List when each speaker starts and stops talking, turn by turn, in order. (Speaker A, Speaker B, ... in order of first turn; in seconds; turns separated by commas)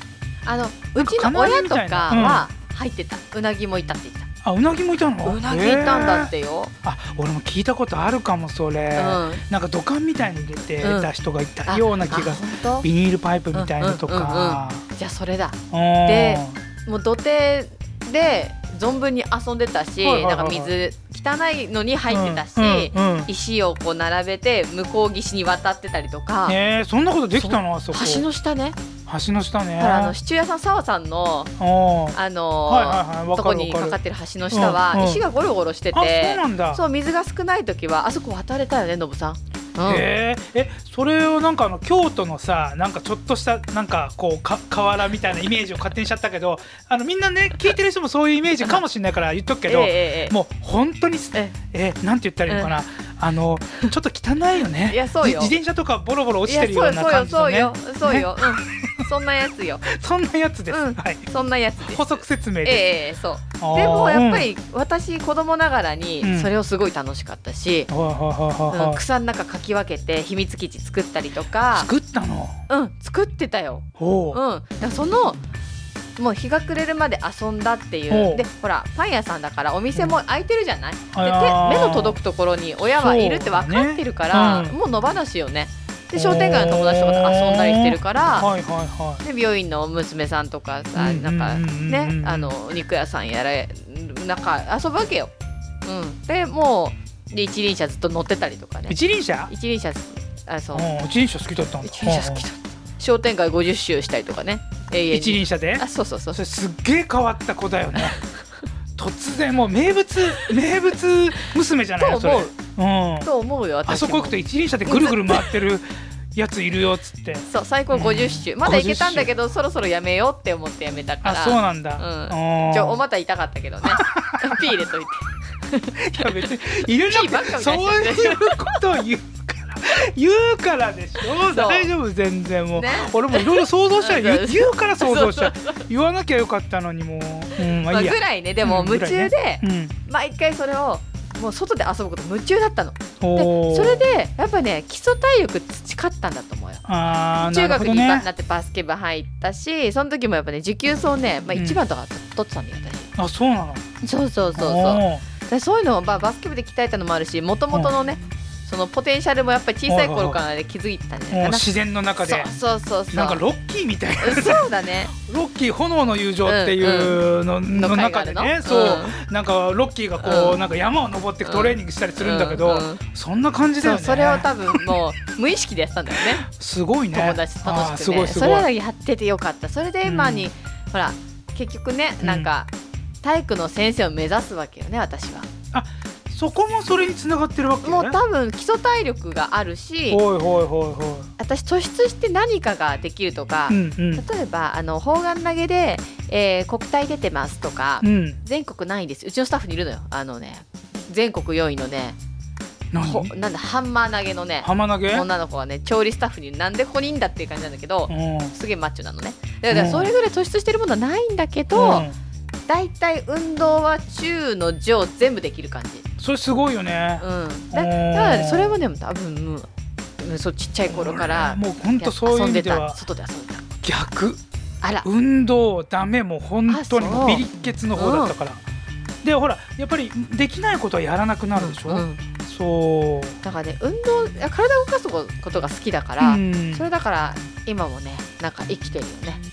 Speaker A: 0.4-4.3, Speaker B: 0.9-2.5, Speaker B: 4.4-6.3, Speaker A: 5.2-6.7, Speaker B: 6.8-14.8, Speaker A: 8.9-9.4, Speaker A: 10.8-11.1, Speaker A: 11.7-12.9, Speaker A: 13.5-26.6, Speaker B: 15.7-16.6, Speaker B: 20.0-20.7, Speaker B: 22.1-23.3, Speaker B: 26.4-28.2, Speaker A: 27.3-28.8, Speaker B: 29.1-30.1, Speaker A: 29.8-31.5, Speaker B: 31.6-34.0, Speaker A: 32.1-40.1, Speaker B: 34.5-35.2, Speaker B: 35.9-36.8, Speaker B: 39.8-59.0, Speaker A: 49.7-50.4, Speaker A: 52.5-52.7, Speaker A: 54.8-55.5, Speaker A: 56.5-59.9, Speaker B: 59.9-61.3, Speaker A: 60.7-67.9, Speaker B: 61.8-62.9, Speaker B: 63.6-64.5, Speaker B: 66.2-66.5, Speaker B: 67.9-69.0, Speaker A: 68.7-71.9, Speaker B: 71.7-72.6, Speaker A: 72.7-75.4, Speaker B: 74.0-74.4, Speaker A: 76.2-88.5, Speaker B: 78.1-78.4, Speaker B: 81.1-82.2, Speaker B: 82.8-84.7, Speaker B: 86.1-89.2, Speaker A: 89.2-95.3, Speaker B: 90.9-92.5, Speaker A: 95.8-99.0, Speaker B: 98.9-99.5, Speaker A: 99.5-100.9, Speaker B: 100.7-102.4, Speaker A: 101.8-106.4, Speaker B: 105.1-108.2, Speaker B: 109.0-113.3, Speaker A: 112.0-112.5, Speaker A: 113.2-115.5, Speaker B: 113.9-119.3, Speaker A: 117.5-128.8, Speaker B: 121.2-123.0, Speaker B: 123.8-124.8, Speaker B: 126.0-139.9, Speaker A: 131.3-131.9, Speaker A: 132.7-135.8, Speaker A: 137.6-146.8, Speaker B: 143.2-144.1, Speaker B: 146.8-148.3, Speaker A: 147.4-153.1, Speaker B: 151.5-151.8, Speaker B: 153.2-153.8, Speaker A: 154.0-163.4, Speaker B: 154.6-155.2, Speaker B: 159.8-160.4, Speaker B: 161.3-162.5, Speaker B: 163.1-174.9, Speaker A: 164.2-165.1, Speaker A: 166.4-169.2, Speaker A: 170.2-170.6, Speaker A: 171.4-173.0, Speaker A: 173.8-176.4, Speaker B: 176.1-178.7, Speaker A: 177.1-182.7, Speaker B: 180.0-180.5, Speaker B: 182.2-182.5, Speaker A: 183.2-185.5, Speaker B: 185.7-188.2, Speaker A: 187.8-190.2, Speaker B: 190.1-191.3, Speaker A: 191.4-202.2, Speaker B: 193.7-194.2, Speaker B: 198.0-198.4, Speaker B: 202.9-203.3, Speaker A: 203.0-212.1, Speaker B: 204.6-205.3, Speaker B: 208.1-208.6, Speaker B: 209.7-210.1, Speaker B: 211.7-212.1, Speaker A: 212.7-216.0, Speaker B: 216.2-218.8, Speaker A: 217.2-223.6, Speaker B: 220.9-223.0, Speaker B: 223.8-224.4, Speaker B: 225.0-228.6, Speaker A: 226.7-228.3, Speaker B: 229.2-233.4, Speaker A: 231.6-232.2, Speaker A: 233.4-239.4, Speaker B: 236.2-236.9